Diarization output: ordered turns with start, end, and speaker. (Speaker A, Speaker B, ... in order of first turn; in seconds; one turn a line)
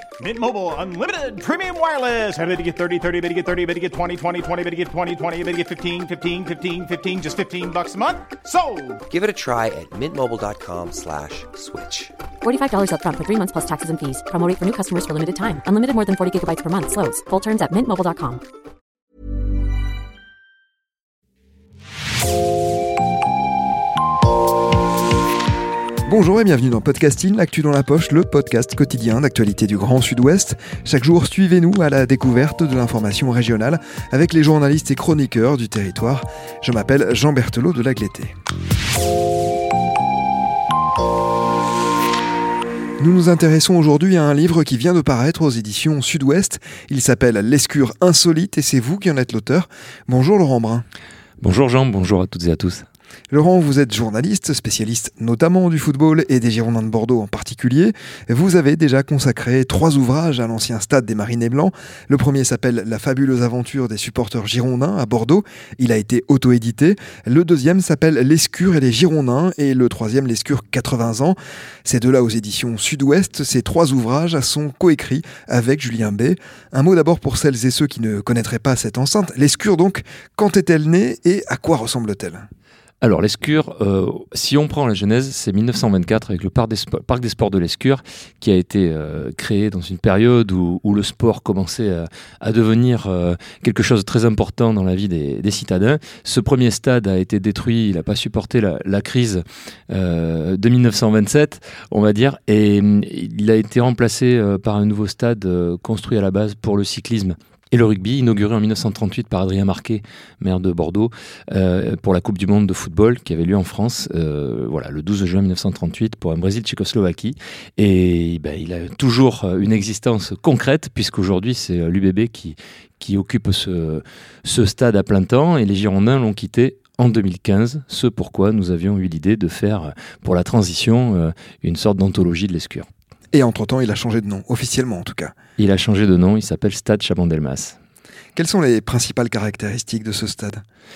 Speaker A: 0.2-9.0
Speaker B: 9.1-12.0
Speaker C: 12.4-18.4
Speaker D: 26.1-38.3
Speaker D: 43.0-50.8
Speaker E: 51.4-52.8
Speaker D: 53.3-82.4
Speaker E: 83.0-132.9
Speaker D: 133.3-135.3
Speaker E: 135.6-137.8
Speaker D: 138.3-140.6